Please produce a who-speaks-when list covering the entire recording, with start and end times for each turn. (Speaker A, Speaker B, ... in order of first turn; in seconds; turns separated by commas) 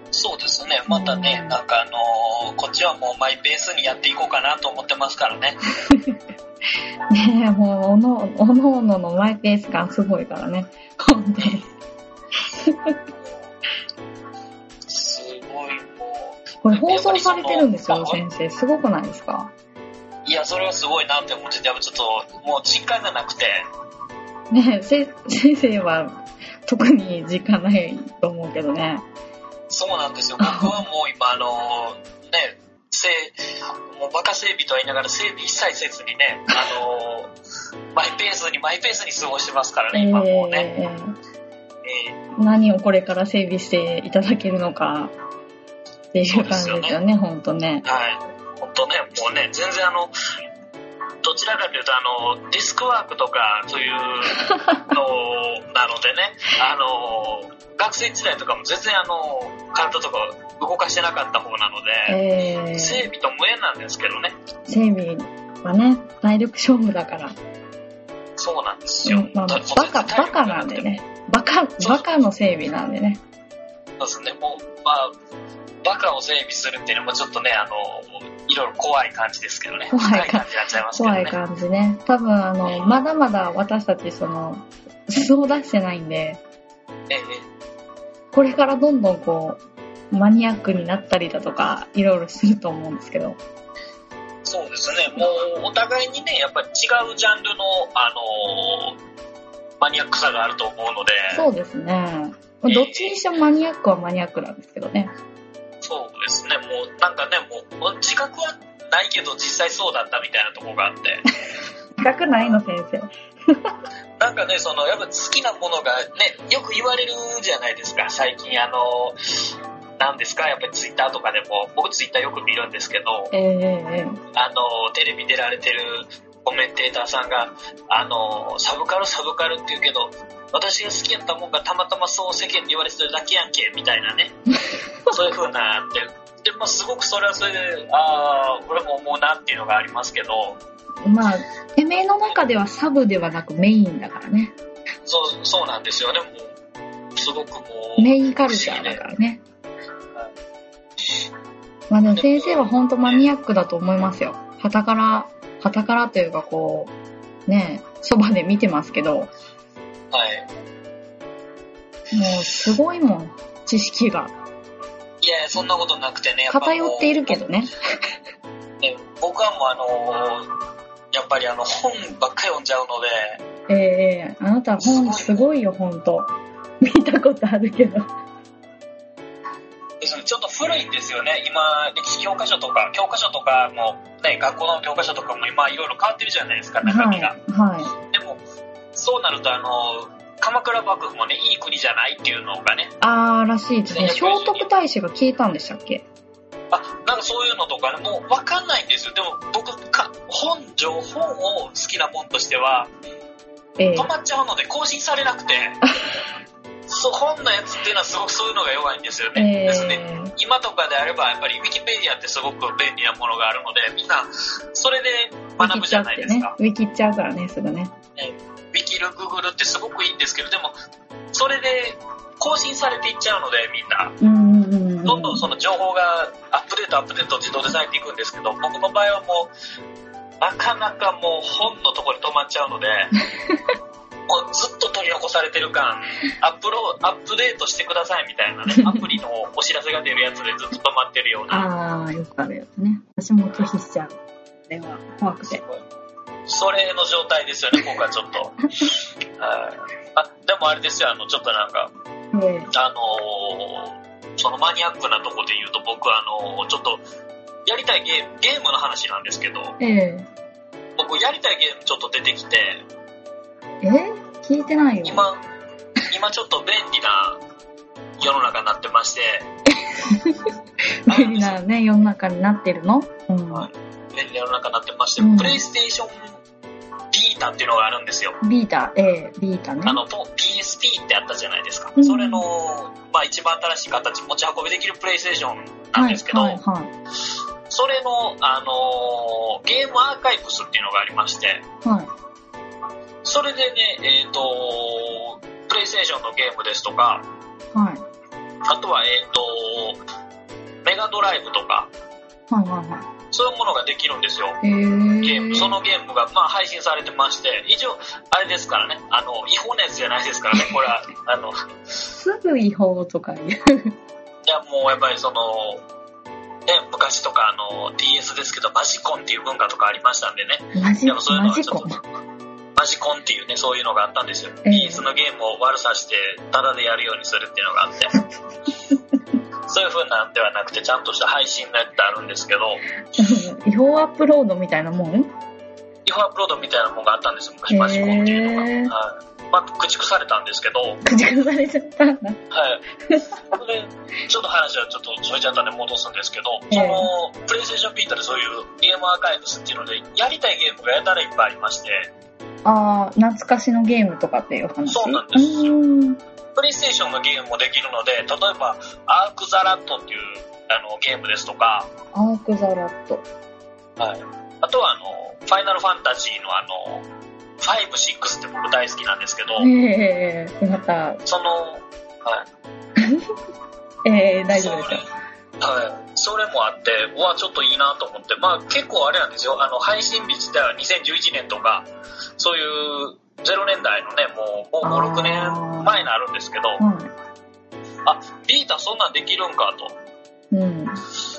Speaker A: 0.1-5.6, Speaker B: 0.9-1.6, Speaker B: 5.8-6.2, Speaker B: 7.1-11.7, Speaker B: 12.6-13.0, Speaker A: 13.2-13.5, Speaker A: 14.9-18.2, Speaker B: 16.6-19.5, Speaker A: 20.2-23.7, Speaker B: 24.5-29.0, Speaker A: 29.7-37.3, Speaker B: 30.4-30.8, Speaker A: 37.9-40.7, Speaker B: 39.9-41.1, Speaker A: 41.8-42.2, Speaker B: 42.4-45.1, Speaker B: 46.1-47.9, Speaker A: 46.3-47.0, Speaker A: 47.8-50.1, Speaker A: 51.2-62.2, Speaker B: 54.4-54.9, Speaker B: 62.1-63.1, Speaker A: 62.7-64.4, Speaker B: 64.7-67.4, Speaker A: 68.4-70.9, Speaker B: 69.0-73.2, Speaker A: 74.0-75.1, Speaker A: 75.8-81.4, Speaker B: 79.9-86.4, Speaker A: 87.1-87.5, Speaker B: 88.3-89.6, Speaker B: 90.1-93.4, Speaker A: 94.4-99.0, Speaker A: 99.8-101.5, Speaker B: 101.3-105.1, Speaker A: 102.7-103.2, Speaker A: 105.8-111.2, Speaker B: 112.0-113.7, Speaker A: 114.2-123.3, Speaker B: 123.3-124.2, Speaker A: 124.3-134.3, Speaker A: 135.1-140.6, Speaker B: 141.0-144.5, Speaker A: 145.1-146.5, Speaker A: 147.2-149.0, Speaker B: 148.0-149.4, Speaker B: 151.9-156.9, Speaker A: 152.1-153.2, Speaker B: 157.5-159.3, Speaker A: 160.1-160.5, Speaker B: 162.1-164.3, Speaker A: 165.2-167.4, Speaker B: 166.5-167.8, Speaker A: 168.8-170.5, Speaker A: 171.1-173.4, Speaker B: 173.7-176.3, Speaker A: 174.8-175.5, Speaker B: 176.8-178.1, Speaker A: 180.0-187.3, Speaker B: 186.8-187.9, Speaker A: 188.1-188.4, Speaker A: 188.9-192.9, Speaker B: 193.0-196.1, Speaker A: 193.9-194.7, Speaker A: 196.7-202.9, Speaker B: 203.8-204.1, Speaker A: 204.0-205.8, Speaker A: 206.9-216.6, Speaker B: 209.3-210.3, Speaker B: 215.6-217.9, Speaker A: 218.2-220.8, Speaker A: 221.3-224.2, Speaker B: 224.2-225.5, Speaker A: 225.1-229.5, Speaker A: 230.4-233.1, Speaker A: 234.3-241.7, Speaker B: 238.7-239.0, Speaker B: 241.5-244.2, Speaker B: 244.7-245.7, Speaker A: 246.5-251.9, Speaker B: 252.3-252.7, Speaker A: 252.7-257.0, Speaker A: 257.7-259.8, Speaker B: 259.8-260.3, Speaker A: 261.0-262.8, Speaker B: 263.8-265.3, Speaker A: 265.0-265.4, Speaker A: 266.1-267.4, Speaker A: 268.2-269.5, Speaker B: 269.8-270.4, Speaker B: 271.1-273.7, Speaker A: 271.1-271.6, Speaker A: 273.5-276.3, Speaker B: 275.2-275.6, Speaker A: 277.1-278.4, Speaker B: 278.4-280.0, Speaker A: 279.9-286.6, Speaker B: 282.0-282.4, Speaker B: 285.9-286.9, Speaker A: 287.7-291.6, Speaker B: 291.8-292.1, Speaker A: 293.2-297.3, Speaker B: 297.7-298.0, Speaker A: 298.6-300.0, Speaker A: 300.8-301.9, Speaker B: 302.5-303.1, Speaker A: 303.3-304.6, Speaker B: 304.6-305.8, Speaker A: 305.2-311.6, Speaker B: 312.1-313.9, Speaker A: 314.4-315.8, Speaker A: 316.7-321.9, Speaker B: 320.8-322.1, Speaker A: 322.8-328.1, Speaker B: 324.7-325.1, Speaker A: 329.7-332.8, Speaker B: 333.2-335.3, Speaker A: 336.1-341.0, Speaker B: 337.7-338.9, Speaker B: 341.0-342.4, Speaker A: 342.5-342.9, Speaker B: 343.1-343.5, Speaker A: 343.5-352.1, Speaker B: 346.7-347.1, Speaker B: 352.6-356.2, Speaker A: 354.9-355.8, Speaker A: 356.6-361.9, Speaker B: 362.1-363.2, Speaker A: 364.0-367.1, Speaker A: 367.6-369.7, Speaker B: 369.6-371.2, Speaker A: 371.2-372.5, Speaker B: 373.0-373.3, Speaker B: 374.1-375.1, Speaker A: 374.5-375.1, Speaker A: 375.6-381.9, Speaker A: 382.4-386.8, Speaker B: 384.8-386.1, Speaker B: 386.8-387.1, Speaker A: 388.1-389.9, Speaker B: 390.5-391.0